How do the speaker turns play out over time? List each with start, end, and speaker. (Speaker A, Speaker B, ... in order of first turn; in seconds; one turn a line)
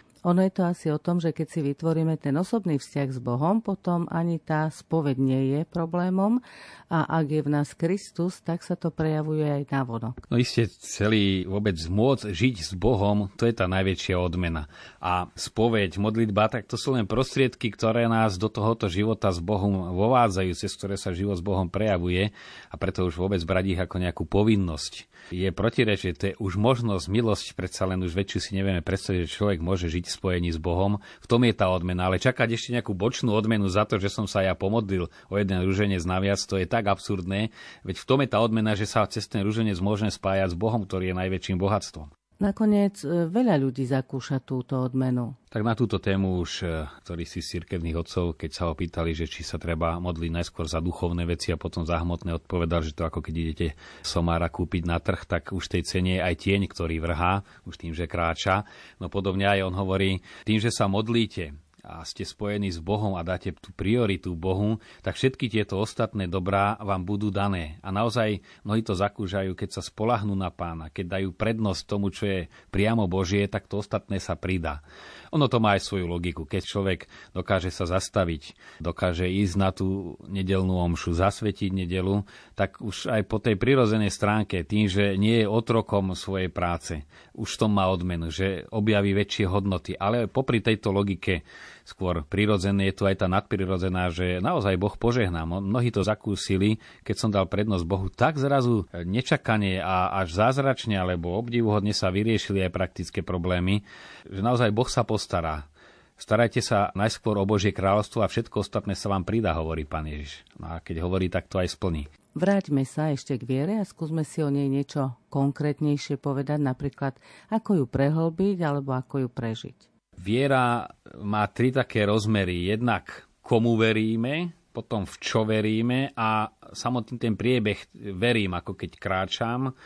Speaker A: 0.2-10.2
Speaker B: 10.3-42.1
Speaker A: 42.4-45.4
Speaker B: 45.5-105.7
Speaker B: 106.2-112.1
Speaker A: 112.3-119.9
Speaker B: 120.2-129.7